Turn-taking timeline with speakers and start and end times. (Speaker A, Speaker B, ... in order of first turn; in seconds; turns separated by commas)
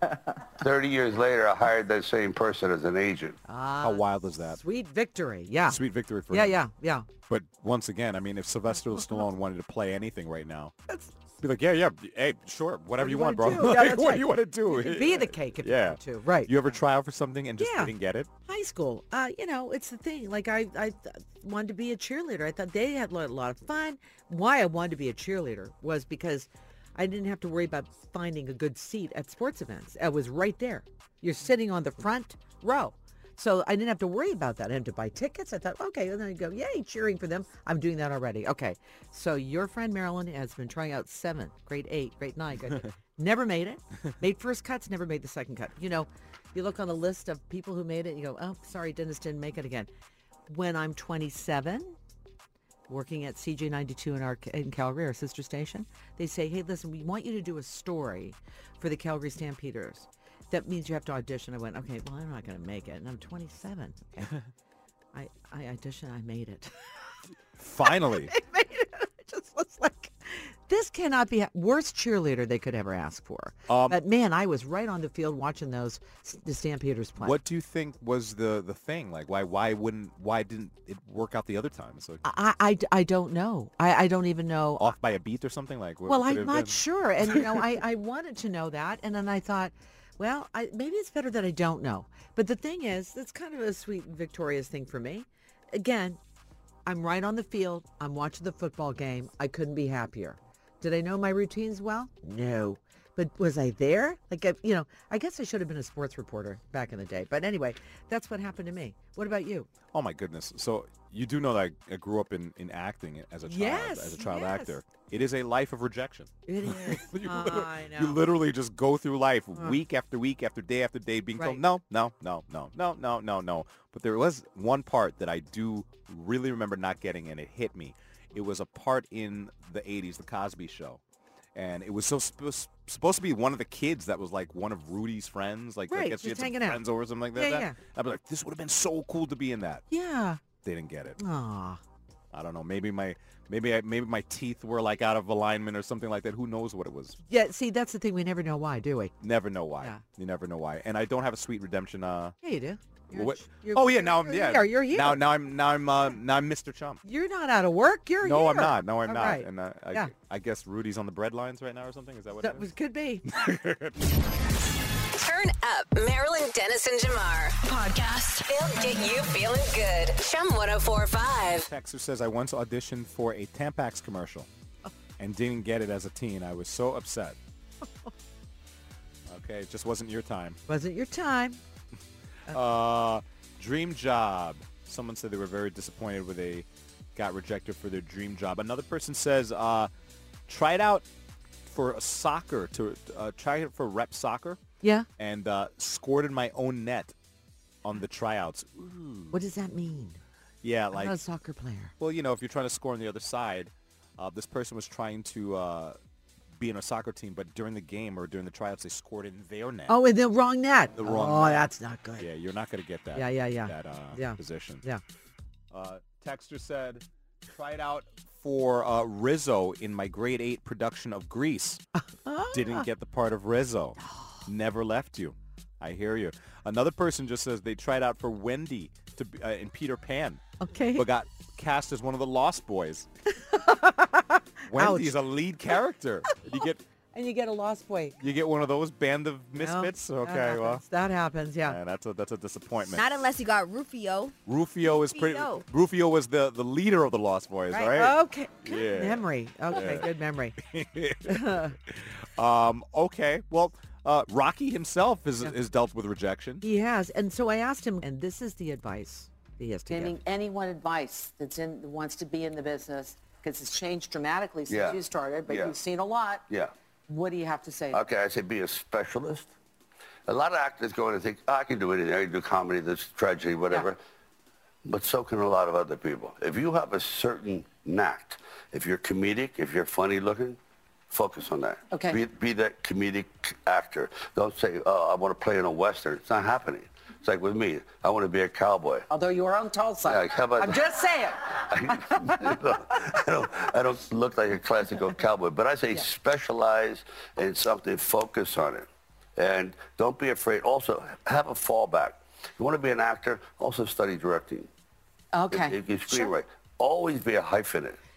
Speaker A: 0.6-3.4, Speaker B: 3.5-7.1, Speaker C: 3.8-4.6, Speaker C: 5.7-6.6, Speaker C: 7.3-10.7, Speaker C: 11.4-18.3, Speaker B: 13.0-16.7, Speaker B: 17.6-17.9, Speaker B: 18.4-49.9, Speaker B: 50.5-52.0, Speaker B: 52.9-64.4, Speaker B: 65.1-67.1, Speaker C: 67.6-68.3, Speaker B: 67.8-77.4, Speaker C: 73.7-74.0, Speaker C: 77.2-82.2, Speaker B: 82.2-84.9, Speaker C: 84.8-87.7, Speaker B: 86.0-96.2, Speaker B: 96.8-109.7, Speaker C: 109.9-131.0, Speaker B: 113.4-114.8, Speaker B: 116.5-118.2, Speaker C: 131.5-139.8, Speaker B: 135.9-136.8, Speaker B: 137.3-137.8, Speaker B: 139.9-140.4, Speaker C: 140.6-141.2, Speaker B: 141.2-141.8, Speaker C: 142.3-147.2, Speaker B: 147.3-149.1, Speaker C: 149.2-152.3, Speaker B: 152.4-155.2, Speaker C: 153.1-157.0, Speaker B: 157.0-160.1, Speaker C: 158.2-162.7, Speaker B: 162.4-163.2, Speaker C: 163.2-164.0, Speaker D: 165.1-171.7, Speaker C: 171.6-174.5, Speaker C: 175.2-177.4, Speaker C: 179.3-180.6, Speaker B: 180.7-181.6, Speaker C: 182.5-189.9, Speaker C: 190.5-191.1, Speaker C: 191.6-194.6, Speaker B: 194.8-195.1, Speaker C: 195.2-197.1, Speaker C: 197.8-199.4, Speaker B: 199.3-200.2, Speaker C: 200.6-201.2, Speaker B: 200.9-201.9, Speaker C: 202.0-206.0, Speaker C: 206.6-210.0, Speaker B: 209.9-212.3, Speaker C: 210.9-214.8, Speaker B: 213.1-215.0, Speaker C: 215.7-221.8, Speaker B: 222.0-222.9, Speaker C: 222.5-233.1, Speaker B: 230.6-231.1, Speaker B: 233.4-235.2, Speaker C: 234.7-236.8, Speaker B: 237.1-238.2, Speaker C: 238.2-240.8, Speaker B: 239.6-241.8, Speaker C: 241.6-243.1, Speaker E: 242.8-245.6, Speaker C: 244.5-256.6, Speaker B: 247.7-250.6, Speaker B: 251.2-251.8, Speaker B: 256.6-260.2, Speaker F: 259.9-266.4, Speaker A: 264.7-265.8, Speaker B: 264.8-265.5, Speaker F: 267.1-267.6, Speaker B: 267.6-268.0, Speaker A: 267.9-269.5, Speaker A: 270.3-274.0, Speaker A: 274.8-280.6, Speaker A: 281.1-289.1, Speaker F: 289.1-291.4, Speaker A: 290.0-290.8, Speaker A: 291.5-304.7, Speaker B: 305.3-306.3, Speaker A: 305.5-308.0